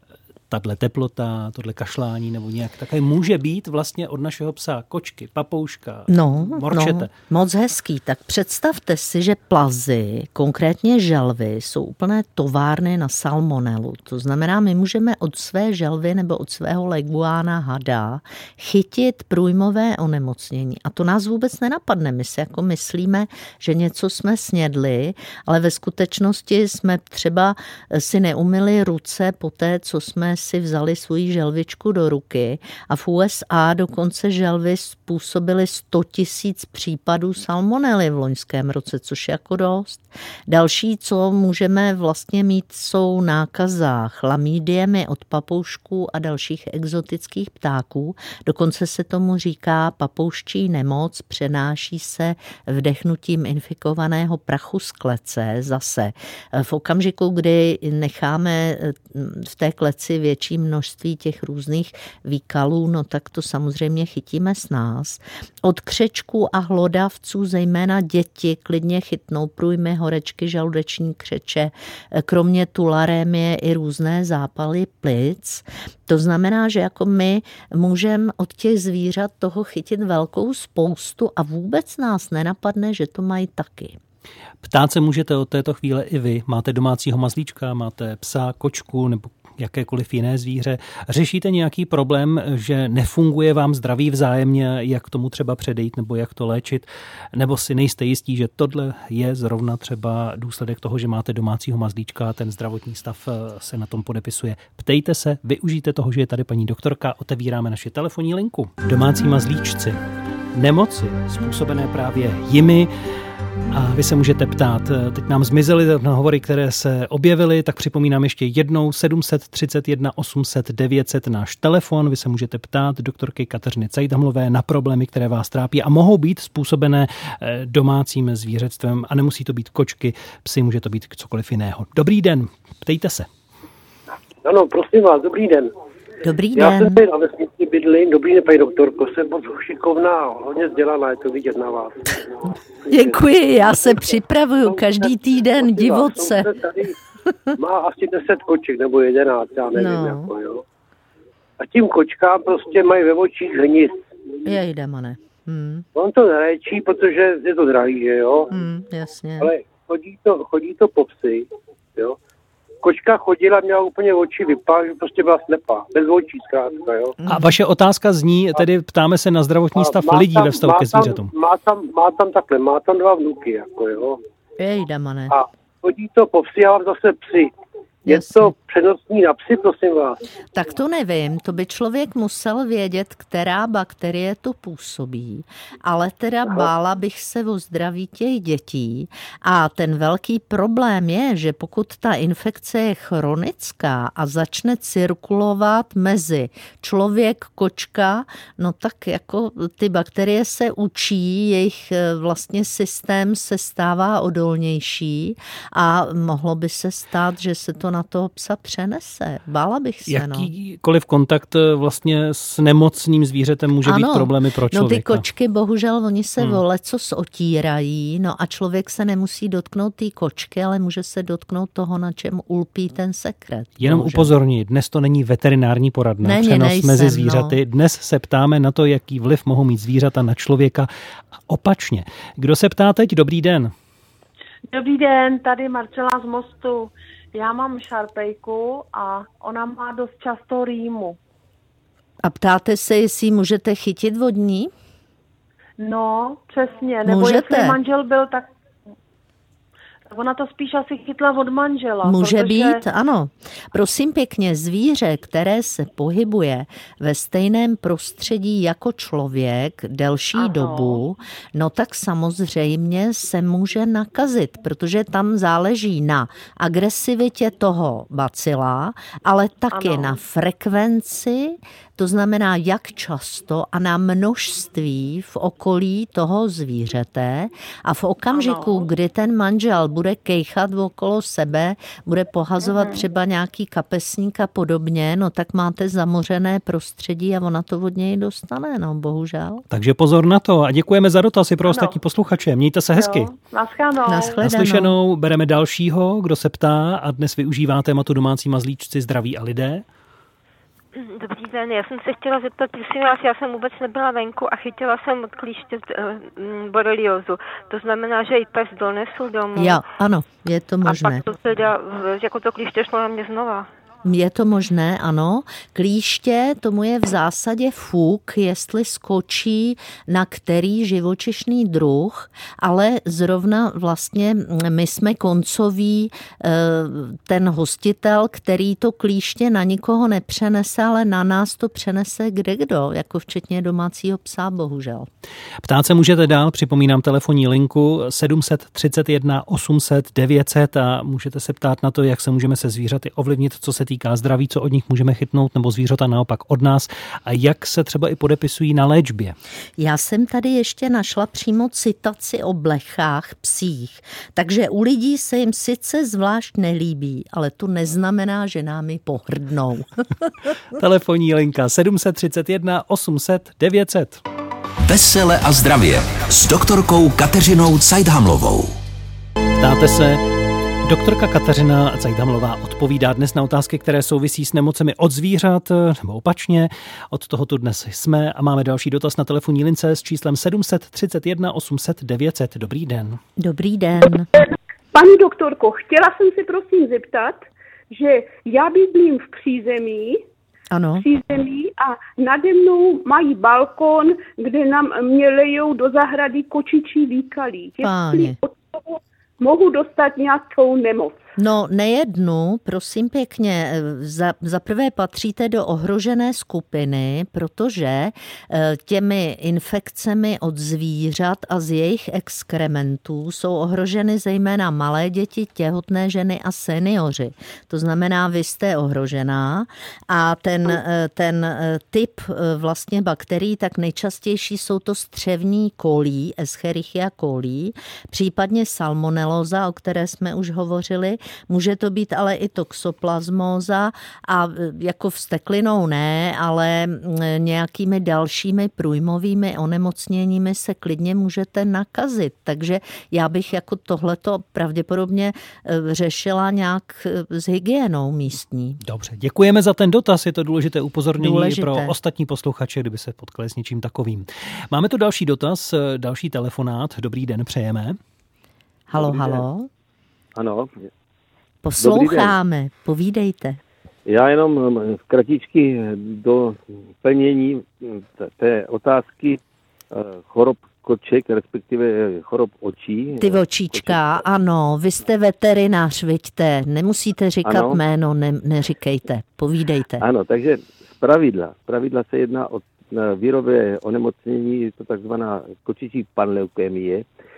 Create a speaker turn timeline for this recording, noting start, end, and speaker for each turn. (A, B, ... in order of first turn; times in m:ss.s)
0:00.5-0:07.1 A
0:06.1-1:24.0 B
1:24.6-1:50.0 A
1:50.6-1:52.9 A
1:53.7-2:13.3 A
2:14.4-2:15.7 C
2:16.2-2:17.0 B
2:16.6-2:22.2 C
2:22.8-2:23.2 C
2:22.9-2:26.5 B
2:24.7-2:27.0 C
2:27.6-2:30.6 C
2:29.8-2:30.3 B
2:31.6-2:34.0 C
2:34.4-2:35.8 B
2:36.0-2:38.5 C
2:38.5-2:39.5 B
2:39.4-2:42.2 C
2:42.8-2:47.2 C
2:47.2-2:47.5 B
2:47.3-2:51.3 A
2:49.8-2:54.2 C
2:54.6-2:55.4 B
2:55.3-2:57.5 C
2:58.1-2:58.5 B
2:58.1-3:00.2 C
3:00.5-3:30.5 B
3:30.1-3:35.2 A
3:33.8-3:44.3 B
3:43.8-3:50.9 A
3:46.2-3:47.6 B
3:51.5-3:53.7 A
3:54.7-4:01.2 D
4:02.2-4:04.7 B
4:05.8-4:08.5 D
4:07.0-4:07.8 B
4:10.1-4:12.8 D
4:12.0-4:49.6 B
4:20.4-4:21.0 D
4:29.7-4:30.2 D
4:38.3-4:38.8 D
4:42.6-4:43.0 D
4:49.7-4:53.3 A
4:51.6-4:52.0 D
4:53.0-4:54.4 D
4:54.1-4:55.0 B
4:54.4-4:59.8 A
5:01.0-5:09.8 E
5:09.6-5:11.2 B
5:10.8-5:13.7 E
5:14.0-5:35.1 B
5:35.6-5:49.4 A
5:49.8-5:59.9 B
6:00.8-6:04.2 A
6:04.8-6:08.8 F
6:09.6-6:10.2 A
6:10.8-6:23.2 A
6:23.4-6:24.3 B
6:24.9-6:30.2 G
6:30.7-6:31.0 B
6:31.0-6:41.2 G
6:37.8-6:38.4 B
6:41.4-7:28.8 B
7:28.8-7:38.0 A
7:31.2-7:31.9 B
7:38.9-7:39.7 B
7:39.0-7:39.4 H
7:40.4-7:40.9 H
7:41.6-7:43.6 B
7:41.8-7:42.3 H
7:44.1-7:49.4 H
7:49.9-7:54.0 H
7:53.2-8:00.0 B
7:57.5-7:57.8 H
8:00.0-8:07.1 H